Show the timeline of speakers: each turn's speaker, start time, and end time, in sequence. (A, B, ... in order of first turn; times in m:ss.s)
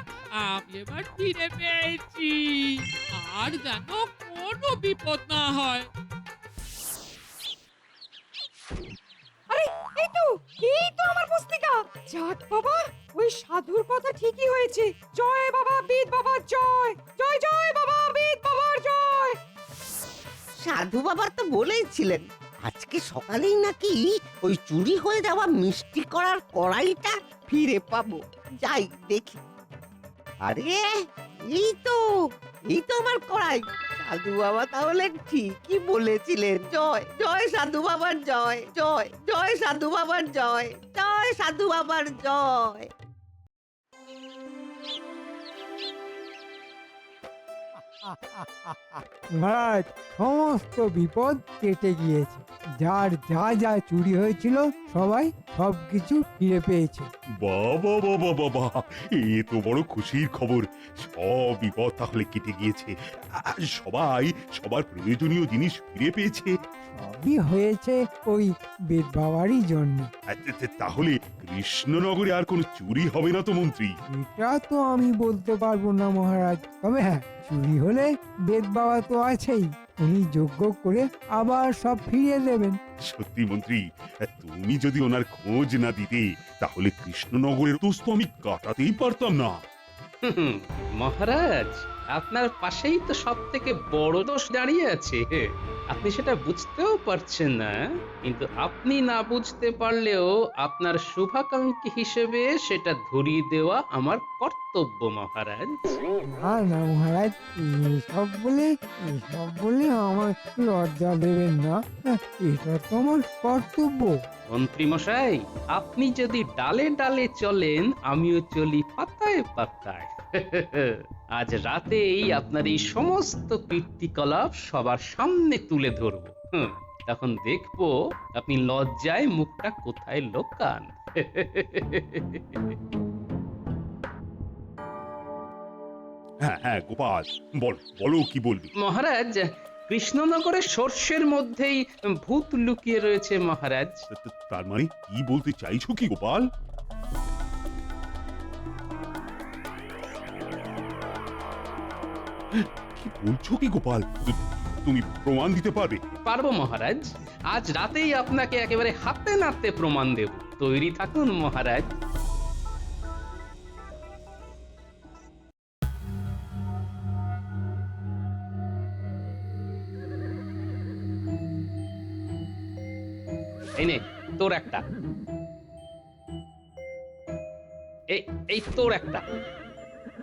0:00.4-0:05.9 A
0:09.5-0:19.4 B
0:20.6-0:29.4 C
0:30.4-0:30.8 C
0:31.4-0:32.0 C
0:32.7-0:42.9 C
0:48.0-0:57.1 D
0:57.4-1:06.5 E
1:07.0-1:10.1 D
1:10.3-1:13.9 E
1:14.1-1:22.8 D
1:23.1-1:29.6 E
1:30.3-1:35.4 F
1:35.9-1:45.9 F
1:46.2-1:51.8 D
1:52.3-1:54.1 D
1:54.5-2:12.7 F
2:16.4-2:18.7 E
2:18.8-2:24.1 F
2:24.1-2:26.4 E
2:32.5-2:36.0 E
2:36.2-2:41.9 F
2:53.8-2:54.8 F
2:58.1-2:59.2 F